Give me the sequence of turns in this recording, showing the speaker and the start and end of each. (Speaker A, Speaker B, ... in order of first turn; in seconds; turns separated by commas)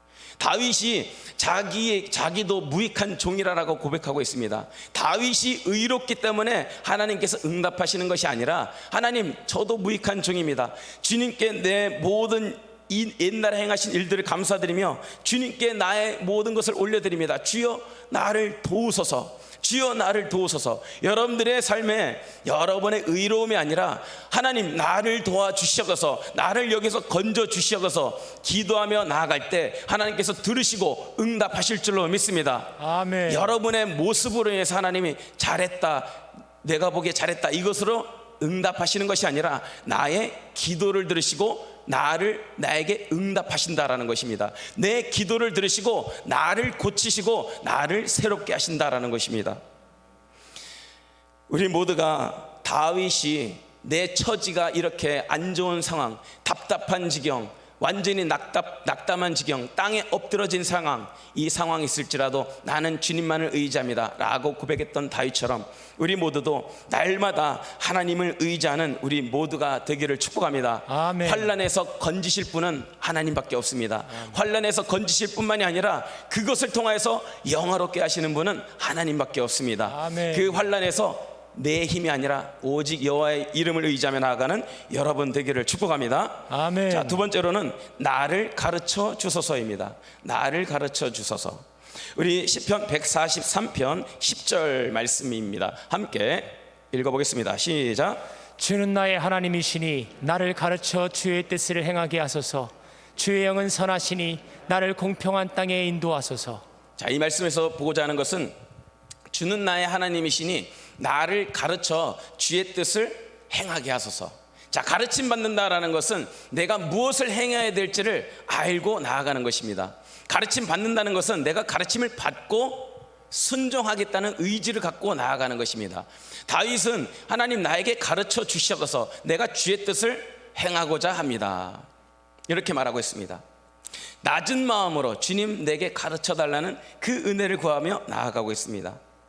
Speaker A: 0.4-32.8, Speaker B: 32.8-33.5, Speaker A: 33.3-49.6, Speaker A: 51.5-91.7, Speaker B: 70.9-71.5, Speaker B: 79.9-80.6, Speaker B: 86.5-87.2, Speaker A: 92.2-98.2, Speaker B: 98.6-106.6, Speaker A: 107.0-108.5, Speaker A: 109.3-131.9, Speaker A: 132.5-133.4, Speaker A: 134.2-139.0